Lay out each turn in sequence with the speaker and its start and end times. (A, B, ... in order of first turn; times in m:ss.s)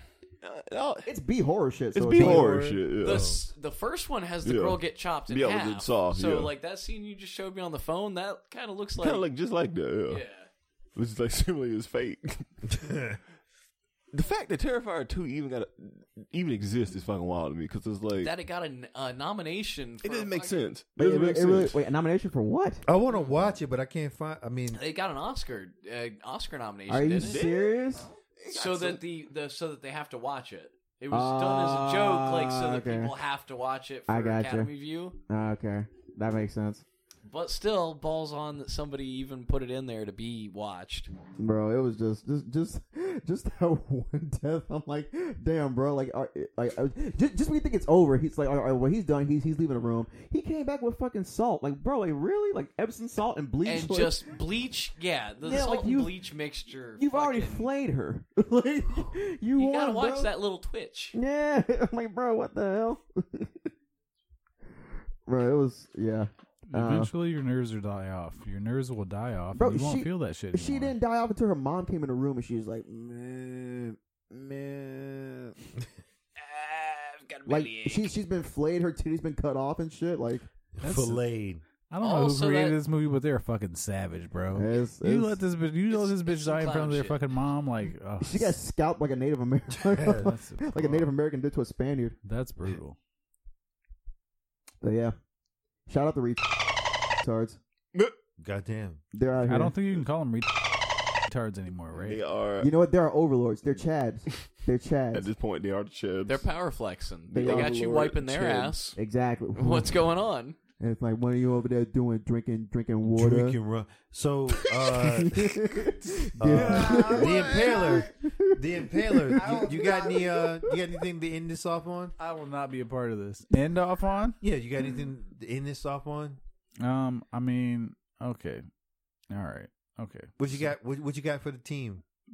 0:00.4-0:01.1 A
0:01.0-0:02.6 B
0:01.9-0:03.3 A
0:02.1-0:03.4 C
0:03.0-0:09.3 D
0:04.4-0:06.5 A
0:09.0-0:10.2 A
0:10.1-0:10.5 D
0:11.0-0:12.5 A
0:12.7-0:13.2 C
0:14.1-0:18.3 A
0:18.2-0:20.6 D
0:20.0-0:21.8 A
0:21.0-0:22.8 B
0:22.8-0:24.8 C
0:23.1-0:23.5 D
0:24.7-0:27.4 D
0:26.9-0:28.1 B
0:27.2-0:29.0 A
0:28.5-0:35.2 D
0:31.1-0:33.1 B
0:34.1-0:34.7 B
0:35.3-0:36.8 B
0:37.3-0:41.1 D
0:41.4-0:54.3 B
0:53.6-0:57.7 D
0:55.4-0:56.2 B
0:57.0-1:00.3 B
0:59.6-1:01.2 D
1:01.1-1:03.7 B
1:05.3-1:07.1 B
1:06.7-1:10.9 E
1:09.6-1:15.6 B
1:16.4-1:18.1 D
1:17.5-1:20.5 B
1:20.8-1:21.6 C
1:20.8-1:21.2 E
1:21.9-1:28.6 E
1:22.0-1:22.8 D
1:24.5-1:25.4 B
1:25.9-1:27.2 D
1:28.2-1:32.2 B
1:29.7-1:30.3 C
1:30.2-1:31.1 E
1:32.2-1:33.0 E
1:34.8-1:35.2 B
1:35.9-1:37.6 B
1:38.4-1:39.0 C
1:39.1-1:39.8 B
1:39.4-1:42.2 E
1:41.9-1:42.7 A
1:42.6-1:45.3 B
1:45.1-1:46.5 A
1:46.3-1:49.0 D
1:47.3-1:50.0 B
1:49.6-1:50.6 D
1:50.8-1:53.6 B
1:53.1-1:55.6 C
1:55.2-1:58.5 B
1:56.4-2:02.1 C
1:56.4-1:57.1 E
1:59.1-2:00.7 B
2:02.2-2:04.4 E
2:04.4-2:06.4 C
2:06.8-2:08.7 E
2:09.3-2:10.7 E
2:10.4-2:12.0 C